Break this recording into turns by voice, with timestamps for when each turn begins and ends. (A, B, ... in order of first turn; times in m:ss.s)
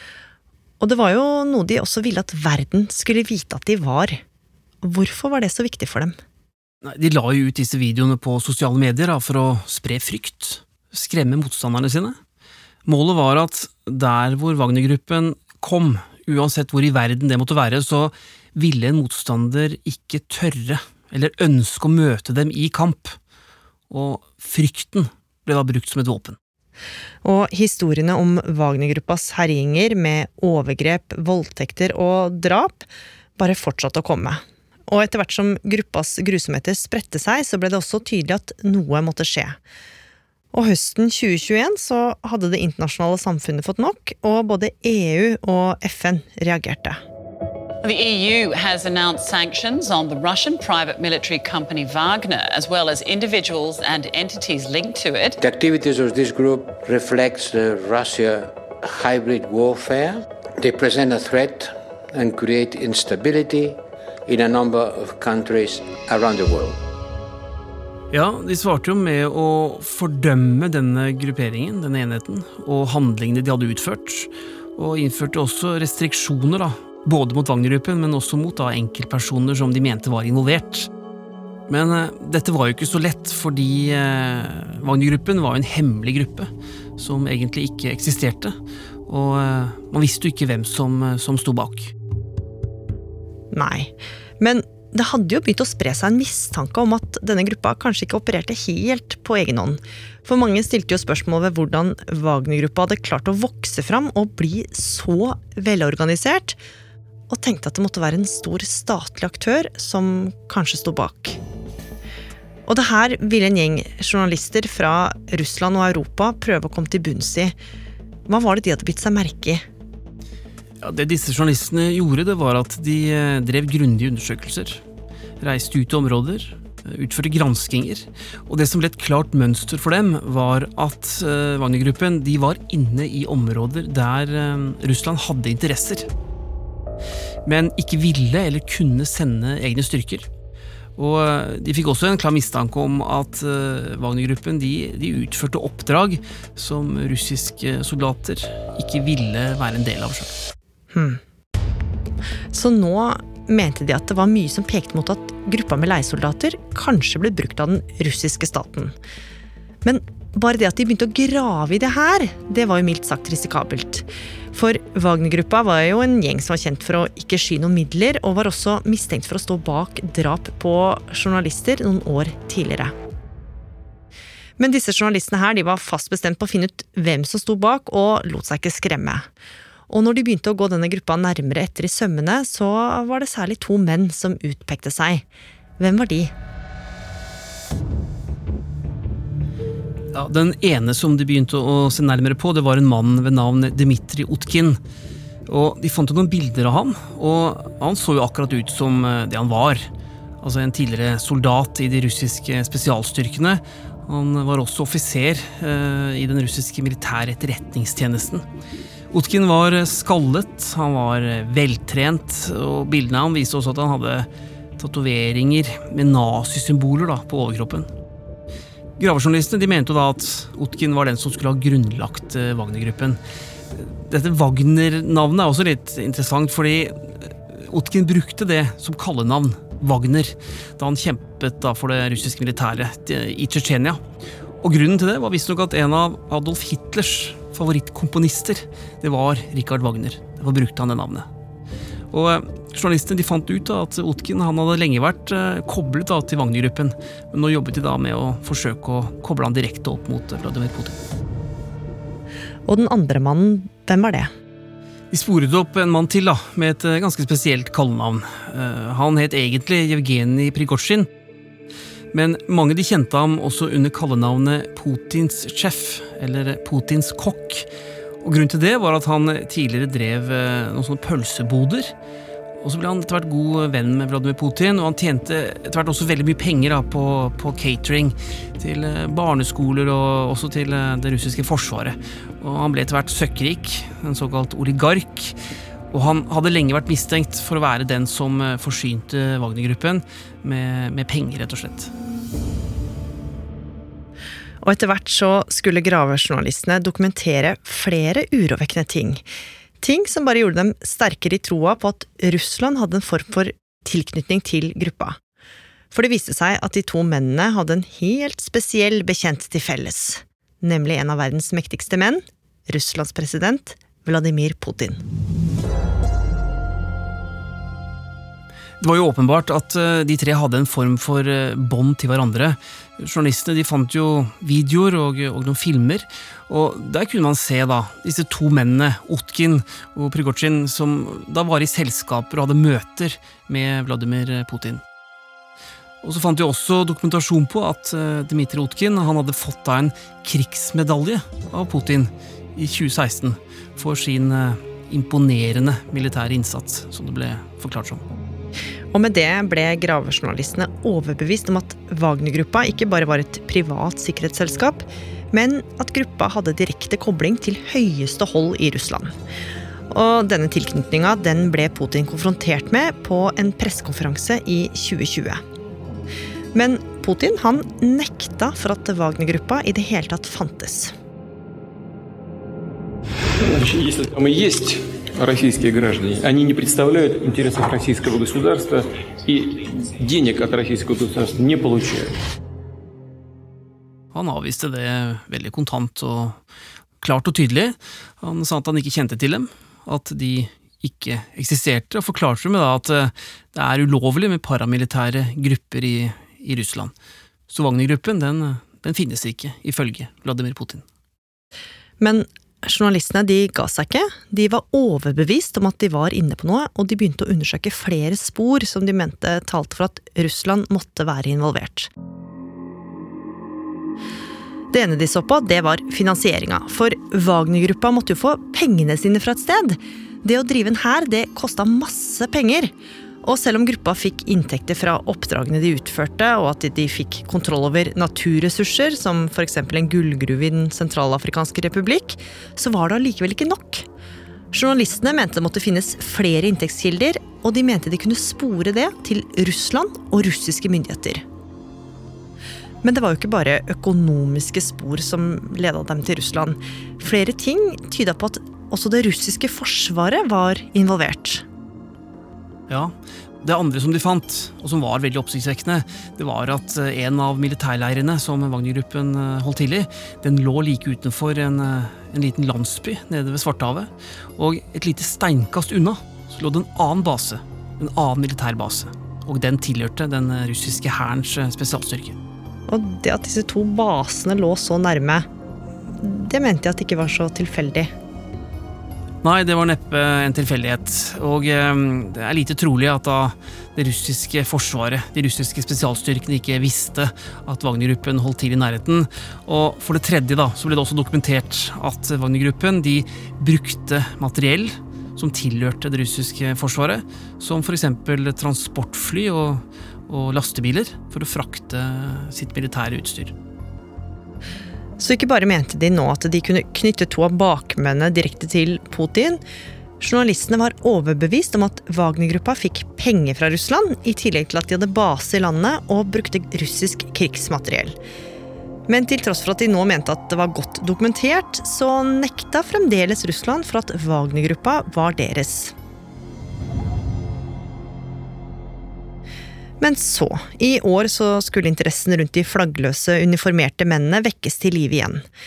0:00.8-0:04.2 A
0:04.8-0:06.2 A
0:06.8-0:12.2 B
0:12.8-0:23.2 B
0:23.9-0:26.4 B
0:27.2-0:39.6 A
0:40.5-0:47.0 A
0:47.8-0:55.4 C
0:55.4-1:06.8 D
1:08.1-1:20.9 B
1:21.7-1:28.6 B
1:29.1-1:31.9 B
1:33.5-1:46.6 A
1:47.3-1:51.4 A
1:52.7-1:57.6 A
1:58.3-1:59.6 A
2:00.8-2:04.8 B
2:05.4-2:16.1 B
2:17.4-2:20.3 B
2:21.0-2:30.4 B
2:30.9-2:31.2 A
2:32.5-2:39.0 A
2:39.8-2:52.9 A
2:54.6-2:59.3 A
2:59.9-3:05.2 A
3:05.8-3:06.3 A
3:10.1-3:14.8 B
3:15.5-3:19.9 B
3:20.4-3:28.4 B
3:29.1-3:37.9 B
3:39.0-3:43.2 B
3:43.7-3:54.0 B
3:54.6-4:01.3 B
4:02.1-4:11.0 B
4:12.7-4:14.3 A
4:15.1-4:21.1 B
4:22.1-4:27.7 B
4:28.2-4:31.9 B
4:32.6-4:45.4 B
4:45.9-4:51.9 B
4:54.6-4:59.3 A
4:59.8-5:05.2 A
5:05.9-5:15.0 A
5:18.8-5:34.8 B
5:36.0-5:48.0 B
5:48.9-5:59.1 A
5:59.9-6:05.4 A
6:06.5-6:10.9 A
6:13.4-6:22.2 E
6:24.1-6:26.4 B
6:27.0-6:36.9 B
6:37.5-6:40.8 B
6:42.0-6:51.9 A
6:54.7-7:13.8 A
7:14.5-7:21.2 A
7:22.8-7:31.4 A
7:32.7-7:52.2 B
7:52.7-7:55.3 A
7:55.9-7:57.9 A
7:59.2-8:23.3 B
8:25.0-8:29.4 A
8:30.0-8:38.0 A
8:38.9-8:45.7 A
8:49.8-8:55.2 A